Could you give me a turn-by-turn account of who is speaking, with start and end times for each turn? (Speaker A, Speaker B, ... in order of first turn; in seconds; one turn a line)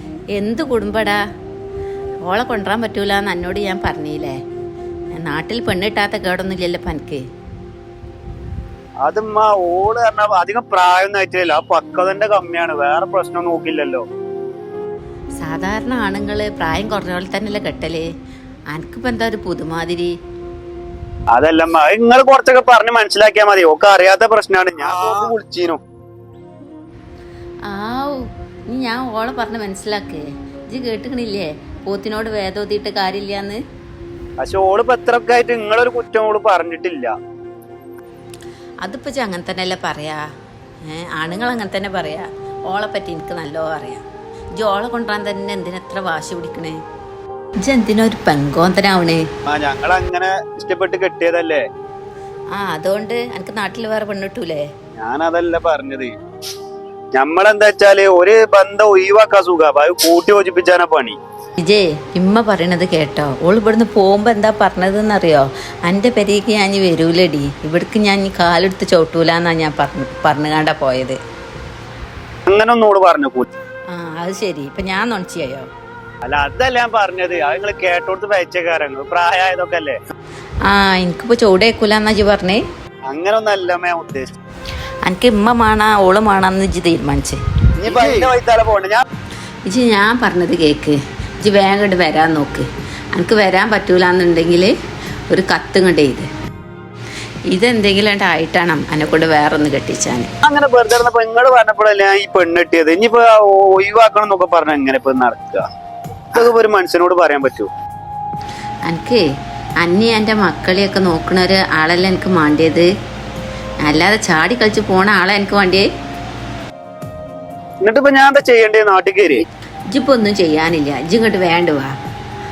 Speaker A: 0.3-1.2
Speaker A: 2.2-4.4
Speaker A: 5.1-7.2
Speaker B: 9.0-14.0
Speaker A: 15.4-18.1
Speaker A: 18.7-20.1
Speaker B: 21.3-25.8
Speaker A: 27.7-33.6
Speaker B: 34.4-37.1
Speaker A: 38.8-40.2
Speaker A: 40.9-44.0
Speaker A: 44.6-46.8
Speaker A: 47.6-49.2
Speaker B: 49.5-51.6
Speaker A: 52.5-54.7
Speaker B: 55.0-56.1
Speaker B: 57.1-61.2
Speaker A: 61.6-71.2
Speaker B: 72.5-73.5
Speaker A: 73.9-75.7
Speaker B: 76.2-80.0
Speaker A: 80.7-82.6
Speaker B: 83.1-84.3
Speaker A: 85.0-87.4
Speaker B: 87.8-89.0
Speaker A: 89.7-94.7
Speaker A: 95.3-96.3
Speaker A: 97.5-100.3
Speaker B: 100.4-105.7
Speaker B: 106.3-107.7
Speaker A: 108.8-109.2
Speaker A: 109.8-112.9
Speaker A: 113.8-115.9
Speaker B: 117.8-119.4
Speaker A: 119.9-121.9